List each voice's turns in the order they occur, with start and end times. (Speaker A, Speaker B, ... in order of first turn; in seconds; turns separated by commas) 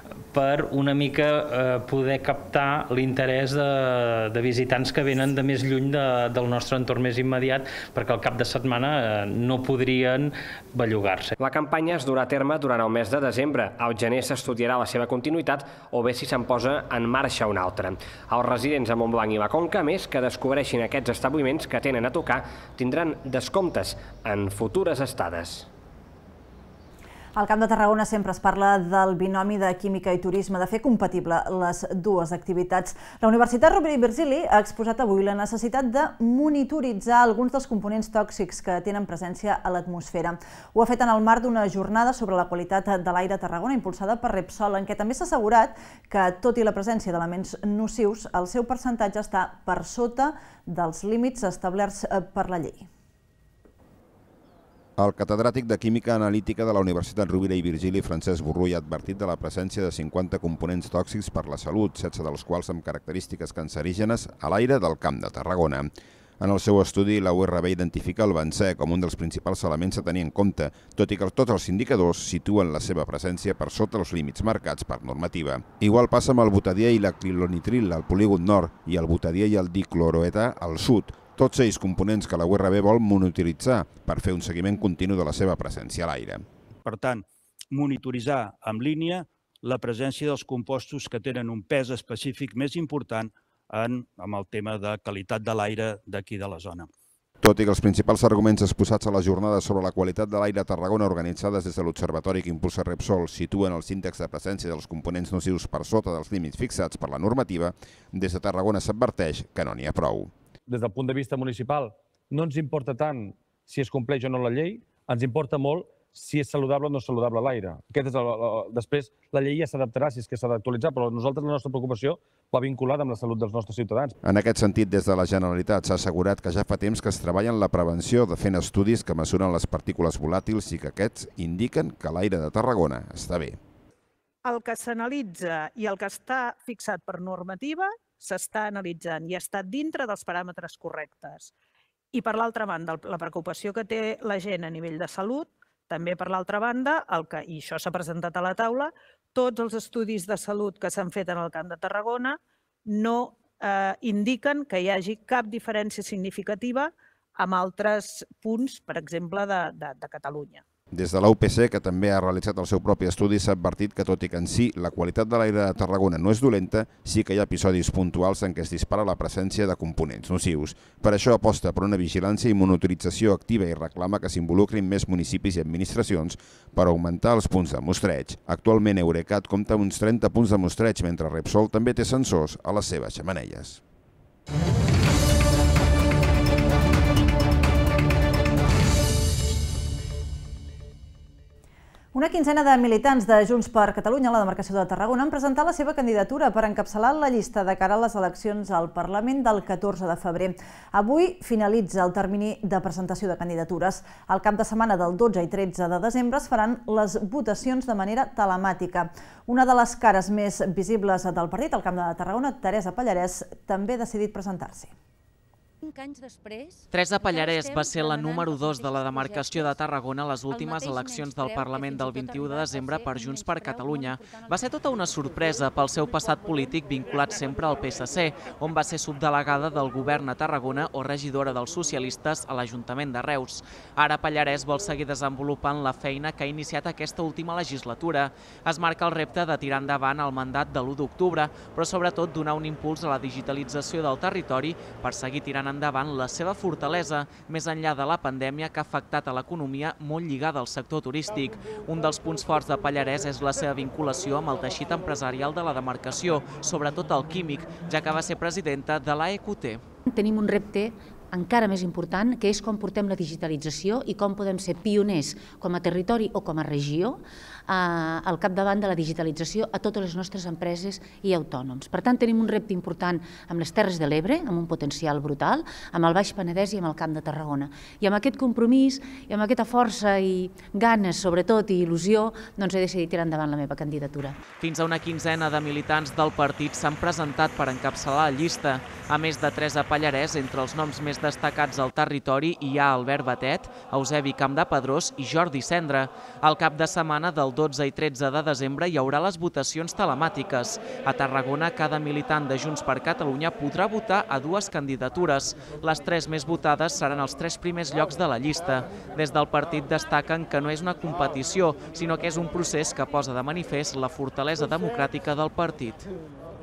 Speaker A: 0.3-11.3, Speaker B: 11.4-25.6, Speaker C: 27.3-52.9, Speaker D: 55.0-86.4, Speaker E: 86.8-96.9, Speaker D: 97.4-110.3, Speaker F: 110.7-124.2, Speaker D: 124.2-133.6, Speaker G: 134.4-141.5, Speaker G: 142.1-160.6, Speaker D: 160.9-183.8, Speaker C: 192.1-214.9, Speaker H: 215.8-219.8, Speaker I: 216.9-259.8, Speaker H: 220.5-224.6, Speaker H: 260.1-284.4, Speaker I: 284.6-316.1